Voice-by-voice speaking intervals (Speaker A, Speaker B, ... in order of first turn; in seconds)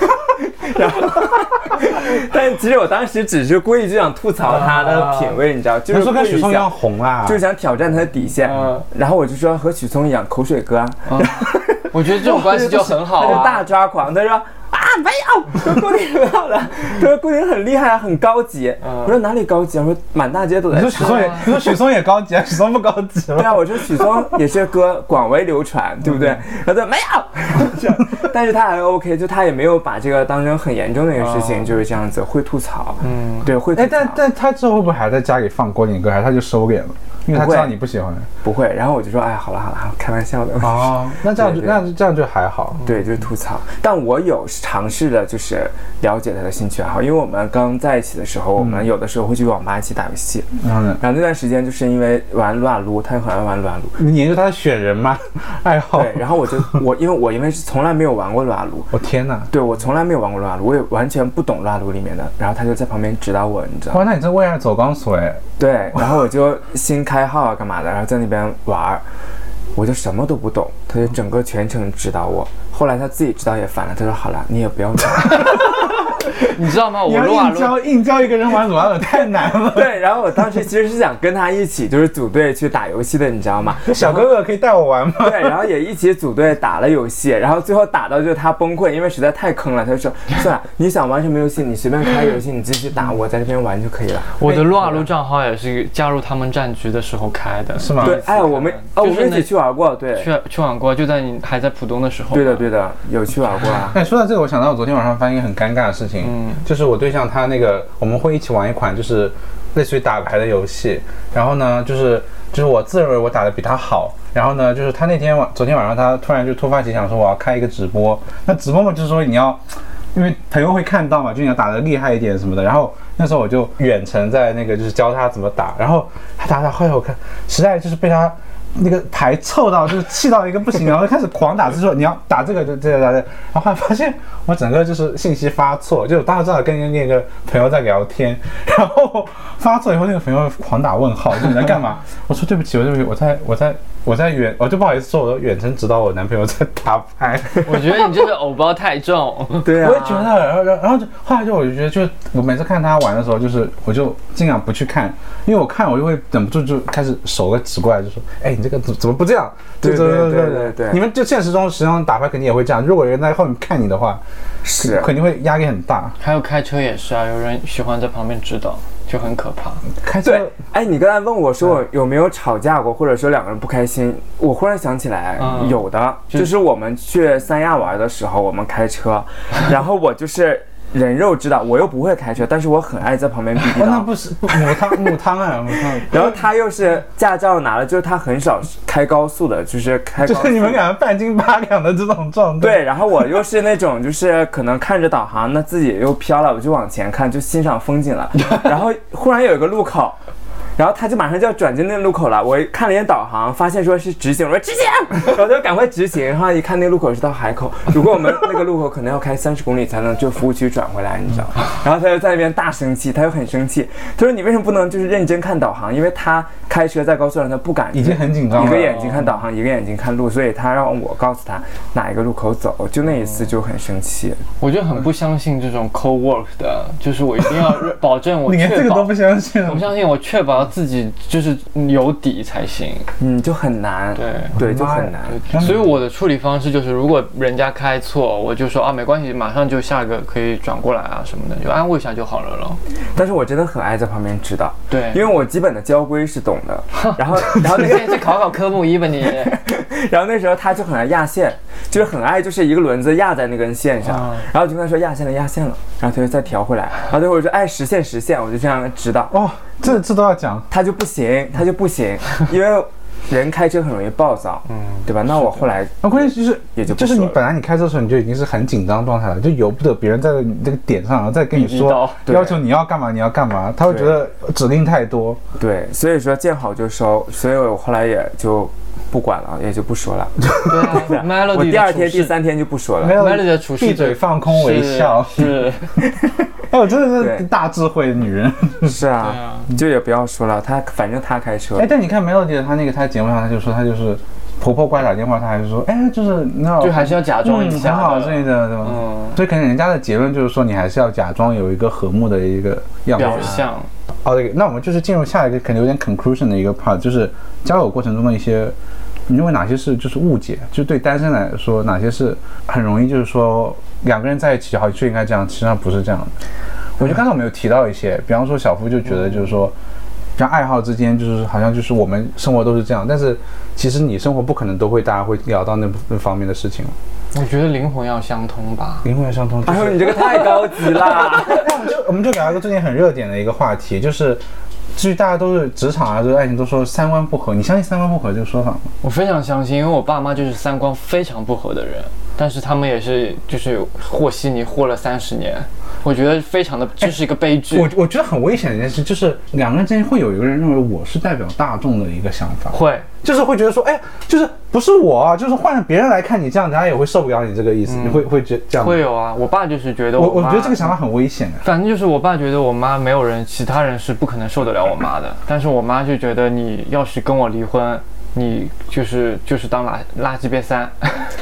Speaker A: 0.4-21.7, 23.4-34.2, 37.3-37.7, 38.4-41.8, 42.8-54.0, 55.9-58.9, 59.5-64.1, 65.6-69.0, 69.8-75.8, 79.6-84.3, 85.2-95.1, 98.0-100.3, 102.3-104.0, 149.6-150.3, 159.8-161.0, 164.6-165.1, 170.2-185.0, 185.8-190.8, 192.6-200.2, 200.8-224.4, 233.2-235.4, 243.2-248.4, 249.4-259.4, 260.7-267.4, 272.3-272.6, 273.9-274.2, 275.6-283.2, 287.2-287.5, 288.8-291.9, 303.3-303.6, 329.6-331.8
Speaker B: 4.6-5.3, 8.4-8.8, 11.1-13.6, 18.8-19.1, 20.9-21.5, 31.2-31.7, 33.0-33.5, 76.3-77.8, 94.4-99.5, 100.2-102.7, 106.2-106.6, 147.7-149.8, 166.2-169.8, 175.4-175.8, 224.6-233.1, 234.2-234.6, 235.2-242.8, 244.9-245.2, 247.0-249.6, 254.1-254.5, 264.7-265.0, 271.5-272.2, 280.7-282.3, 283.1-286.0, 289.2-289.7, 296.8-299.4, 303.2-303.9, 319.2-319.5, 327.3-329.1, 339.0-347.9, 352.7-353.1, 357.9-361.0, 361.6-371.3
Speaker C: 5.9-7.4, 20.7-24.3, 33.8-38.3, 40.6-42.8, 48.6-48.9, 50.6-51.0, 54.0-56.8, 58.9-59.5, 63.9-65.4, 77.0-80.0, 83.9-85.6, 97.8-98.2, 103.9-148.1, 149.8-164.2, 164.8-166.2, 170.0-170.5, 183.6-186.2, 190.2-192.8, 217.9-219.0, 228.4-229.9, 234.6-235.9, 259.3-260.7, 266.0-275.4, 283.0-285.7, 286.7-289.0, 291.8-303.6, 304.2-308.8, 309.3-316.4, 317.0-319.7, 320.4-326.9, 329.0-334.4, 334.9-338.9, 347.0-359.0, 360.2-361.6